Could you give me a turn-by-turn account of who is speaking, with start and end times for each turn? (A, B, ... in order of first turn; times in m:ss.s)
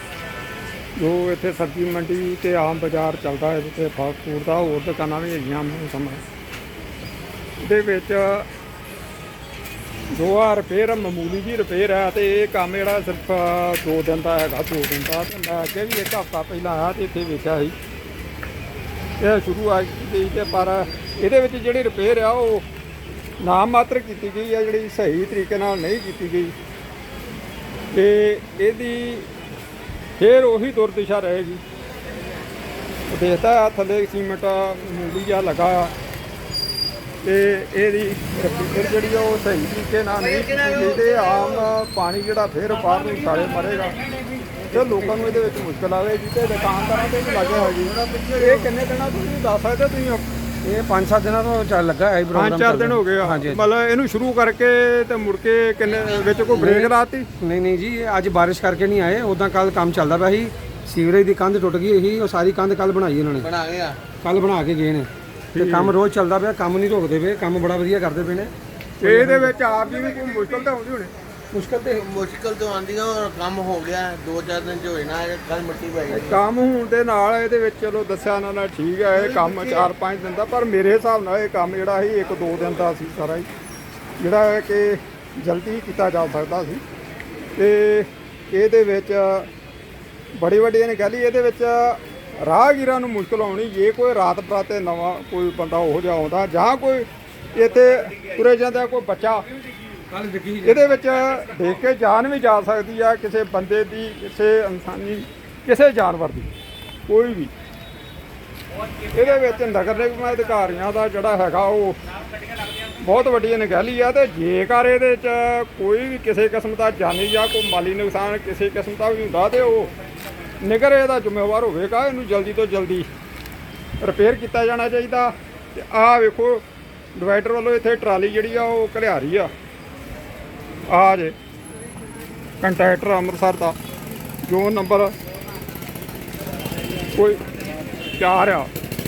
0:01.0-0:06.2 A
0:07.6-0:08.5 A
0:10.1-0:17.8 A
0:19.2-0:22.6 A
0:23.4-0:26.5 A
0:27.9-0:29.3 A
0:30.2-0:31.6 A
0:33.1-0:35.9 A
0:37.2-0:44.0 A
0:40.2-0:41.7 B
0:44.7-0:50.2 A
0:44.8-0:45.3 C
0:47.5-0:48.7 B
0:50.6-0:53.6 C
0:52.3-0:57.3 A
0:56.0-0:56.4 B
0:56.6-1:03.5 C
1:03.4-1:04.0 B
1:04.2-1:09.6 C
1:05.5-1:06.0 A
1:09.0-1:11.1 A
1:11.5-1:12.2 C
1:11.9-1:16.4 B
1:16.1-1:23.5 A
1:19.1-1:19.9 B
1:24.2-1:26.8 A
1:27.6-1:29.5 A
1:30.4-1:39.4 A
1:40.1-1:40.8 C
1:40.6-1:46.5 A
1:47.1-1:47.5 A
1:49.1-1:52.0 A
1:53.0-1:59.9 A
2:00.6-2:03.1 A
2:04.0-2:06.6 A
2:07.2-2:09.5 A
2:10.9-2:11.3 A
2:12.6-2:13.8 A
2:14.5-2:15.1 A
2:18.2-2:18.7 A